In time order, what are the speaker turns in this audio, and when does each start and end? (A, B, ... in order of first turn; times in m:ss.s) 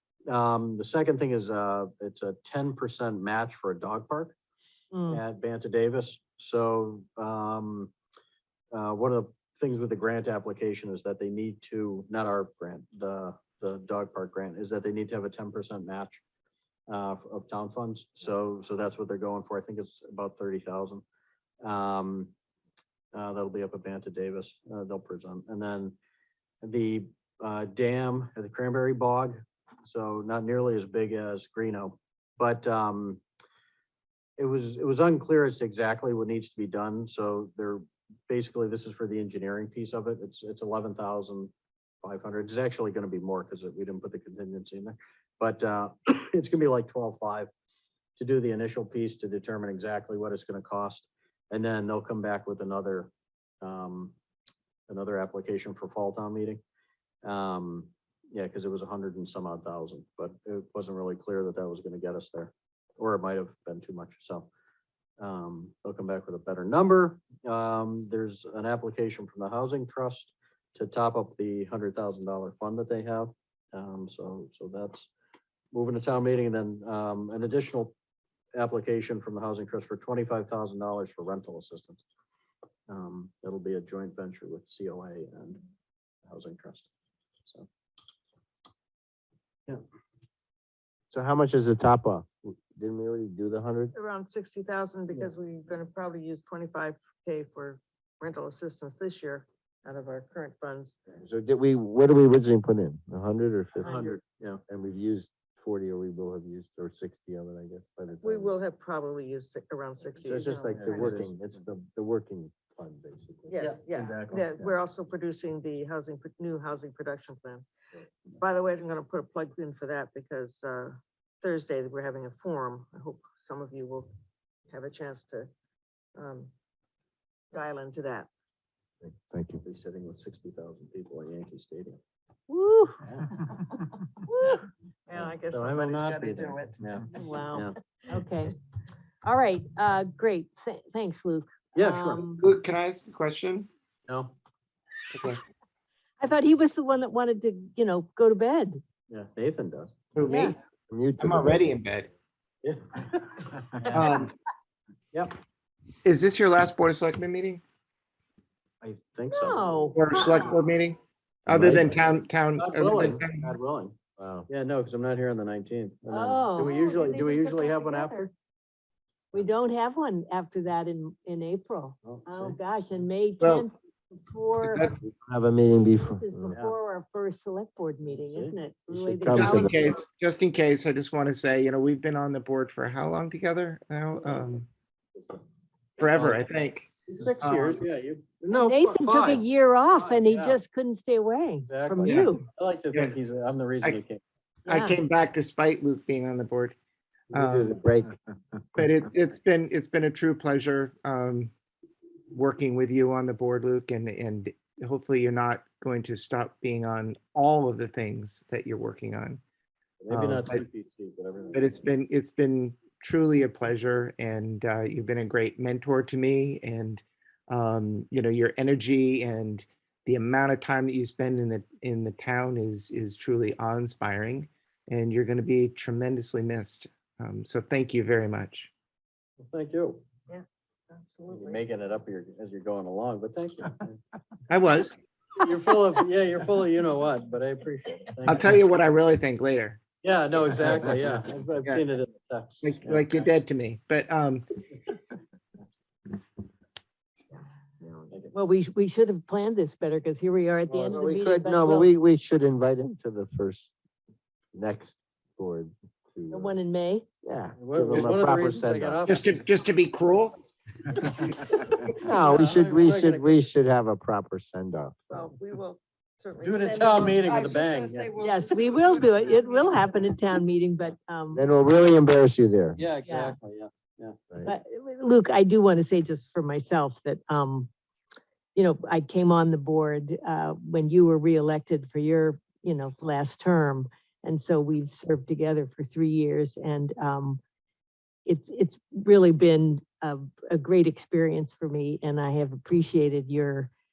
0:00.3-0:04.4 A
0:04.9-0:05.2 B
0:05.1-0:07.9 A
0:08.7-0:16.2 A
0:16.9-0:21.0 A
0:21.6-0:22.3 A
0:23.1-0:26.0 A
0:26.6-0:33.2 A
0:34.4-0:41.5 A
0:42.0-0:47.5 A
0:48.2-0:53.1 A
0:53.6-0:54.2 A
0:54.9-0:56.6 A
0:57.2-1:04.5 A
1:05.2-1:15.1 A
1:15.7-1:17.9 A
1:18.6-1:22.0 A
1:22.9-1:25.6 A
1:26.2-1:26.9 A
1:31.1-1:33.9 C
1:33.9-1:41.0 D
1:41.2-1:44.1 C
1:43.8-1:44.6 A
1:43.8-1:44.2 D
1:44.7-1:48.6 C
1:48.2-1:51.2 D
1:50.2-1:53.6 C
1:50.7-1:51.4 A
1:53.5-1:57.7 D
1:53.6-1:54.4 A
1:58.3-2:04.1 D
2:04.7-2:05.5 D
2:06.2-2:06.5 D
2:07.5-2:08.3 D
2:09.0-2:09.6 C
2:09.6-2:12.0 A
2:12.5-2:13.0 B
2:13.0-2:13.5 A
2:14.3-2:14.6 B
2:15.1-2:17.2 D
2:15.1-2:17.8 A
2:17.1-2:18.6 B
2:19.2-2:22.4 B
2:21.8-2:22.2 A
2:22.4-2:23.7 E
2:24.1-2:24.4 A
2:25.1-2:25.4 E
2:26.2-2:28.8 B
2:29.1-2:30.0 A
2:30.2-2:30.6 E
2:30.2-2:30.6 B
2:30.9-2:31.6 C
2:31.2-2:32.1 E
2:32.6-2:34.2 A
2:33.9-2:34.3 E
2:36.0-2:37.6 E
2:38.8-2:40.0 A
2:39.3-2:40.6 B
2:39.9-2:43.5 E
2:41.5-2:42.0 A
2:41.5-2:41.9 C
2:42.6-2:48.3 A
2:44.2-2:44.5 C
2:46.1-2:48.3 B
2:49.3-2:54.9 B
2:52.0-2:52.6 A
2:53.4-2:53.7 E
2:54.6-2:55.0 E
2:55.0-2:56.6 C
2:56.0-2:59.9 B
2:56.5-2:56.8 A
2:58.1-2:58.6 A
2:58.9-3:00.0 C
2:59.3-3:04.7 E
3:04.3-3:04.6 A
3:05.2-3:05.4 A
3:06.0-3:07.8 E
3:06.0-3:06.4 A
3:07.1-3:10.6 A
3:08.5-3:12.5 B
3:11.7-3:14.2 A
3:14.7-3:16.8 E
3:14.7-3:15.0 B
3:17.3-3:17.8 E
3:17.3-3:18.2 C
3:18.8-3:21.5 E
3:22.3-3:29.4 E
3:30.0-3:31.8 A
3:30.1-3:30.6 E
3:31.5-3:48.7 E
3:49.4-3:50.0 A
3:50.3-3:51.6 D
3:51.3-3:54.0 A
3:54.5-3:55.0 E
3:55.4-3:58.6 A
3:58.3-3:59.8 E
4:00.0-4:03.3 A
4:02.6-4:04.4 E
4:07.8-4:08.1 D
4:08.3-4:11.9 B
4:10.7-4:13.7 C
4:14.5-4:16.6 C
4:16.3-4:17.1 B
4:17.2-4:19.0 C
4:17.6-4:19.5 A
4:19.1-4:20.4 E
4:22.0-4:25.3 C
4:22.0-4:23.4 A
4:25.1-4:29.9 D
4:26.4-4:28.1 A
4:28.2-4:31.4 B
4:31.3-4:32.8 C
4:32.8-4:34.2 A
4:33.1-4:33.4 B
4:34.4-4:37.7 B
4:38.6-4:47.4 B
4:48.3-4:53.7 B